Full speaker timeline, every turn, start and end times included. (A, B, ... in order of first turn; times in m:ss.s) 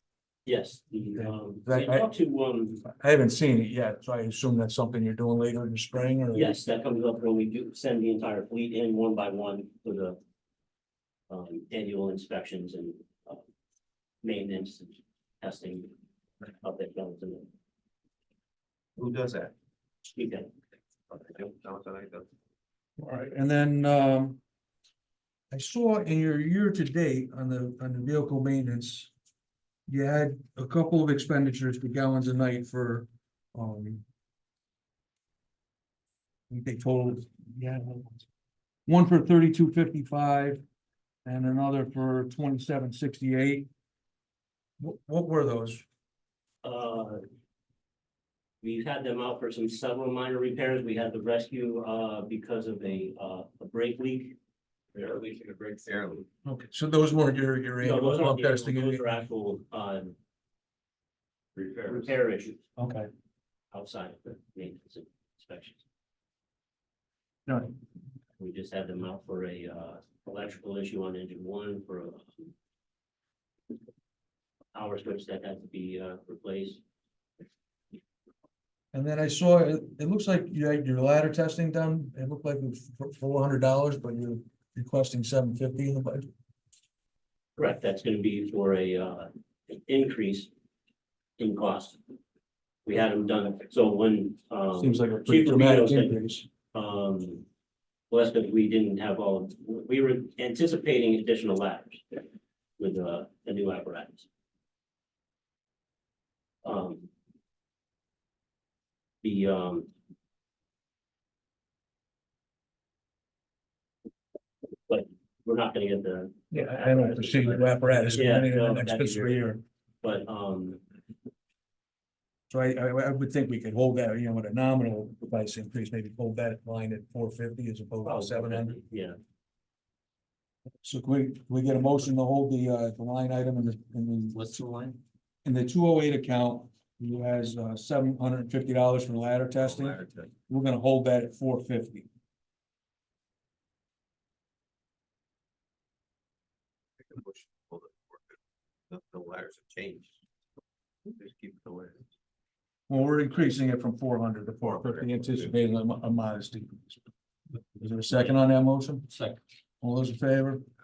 0:00.4-0:02.8 A
0:01.2-0:02.1 B
0:02.8-0:06.6 B
0:06.3-0:10.2 A
0:11.3-0:13.4 A
0:14.2-0:15.9 A
0:16.6-0:17.5 A
0:19.0-0:19.5 C
0:20.1-0:20.5 A
0:21.1-0:22.3 C
0:23.0-0:24.4 B
0:25.5-0:29.1 B
0:29.9-0:34.0 B
0:36.5-0:38.2 B
0:38.9-0:40.6 B
0:41.2-0:43.7 B
0:44.8-0:45.8 B
0:46.6-0:47.2 A
0:48.6-0:54.4 A
0:54.9-0:56.2 C
0:56.4-0:59.1 B
0:57.8-1:00.1 A
1:01.6-1:02.0 C
1:01.8-1:02.6 A
1:02.8-1:03.1 B
1:03.7-1:05.8 A
1:07.5-1:07.7 B
1:08.4-1:12.5 A
1:14.7-1:16.8 A
1:18.9-1:26.3 B
1:27.6-1:30.5 A
1:31.4-1:32.0 A
1:32.8-1:36.2 A
1:34.8-1:36.4 B
1:36.7-1:37.4 A
1:38.1-1:42.2 A
1:42.8-1:44.3 A
1:46.6-1:47.1 A
1:49.2-1:49.9 A
1:54.9-1:59.5 A
1:56.5-1:59.6 B
2:00.0-2:00.8 A
2:02.5-2:08.8 B
2:08.0-2:09.2 A
2:10.8-2:14.5 B
2:15.4-2:22.1 B
2:19.6-2:20.3 C
2:27.0-2:28.4 C
2:28.9-2:30.1 C
2:31.0-2:32.0 C
2:32.9-2:37.0 B
2:34.6-2:35.5 C
2:37.7-2:39.1 B
2:39.8-2:40.6 B